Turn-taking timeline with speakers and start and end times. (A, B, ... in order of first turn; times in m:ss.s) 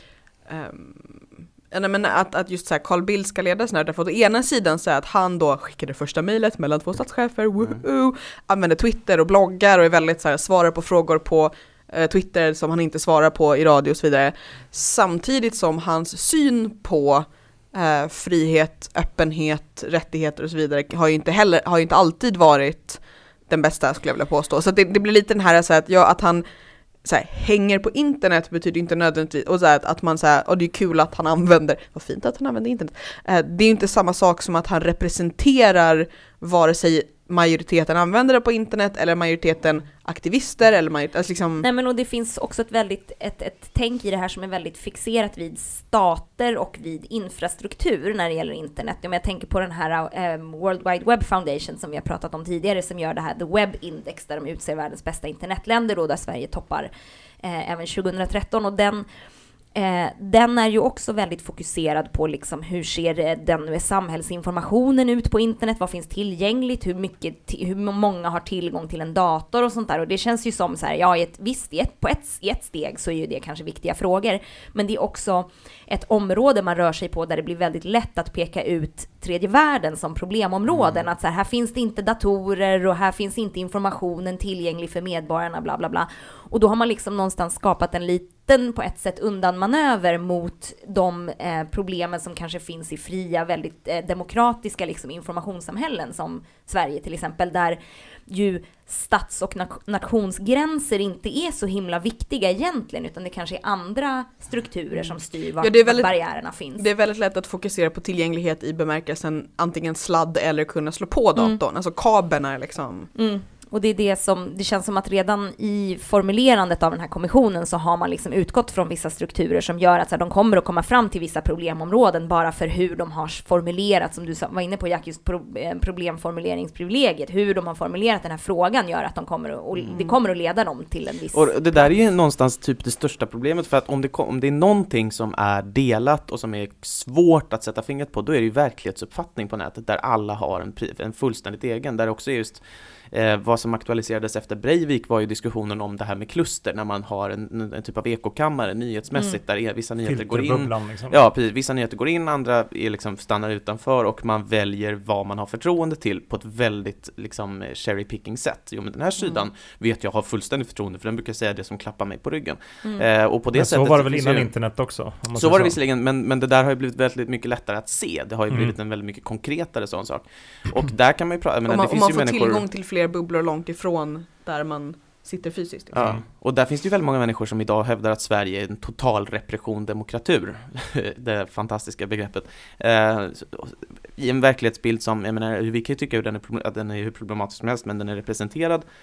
0:00.5-0:26.4 A
0:27.0-0:41.6 A
0:41.6-0:56.9 B
0:57.4-0:59.0 B
0:59.7-1:46.8 B
1:20.7-1:21.0 C
1:45.6-1:46.2 A
1:46.8-1:53.1 A
1:53.1-2:11.9 B
2:09.8-2:10.1 C
2:11.3-2:44.5 C
2:30.0-2:31.2 D
2:43.5-2:45.7 D
2:45.4-2:52.6 C
2:51.7-2:56.2 A
2:55.9-3:08.8 C
2:56.0-2:56.2 D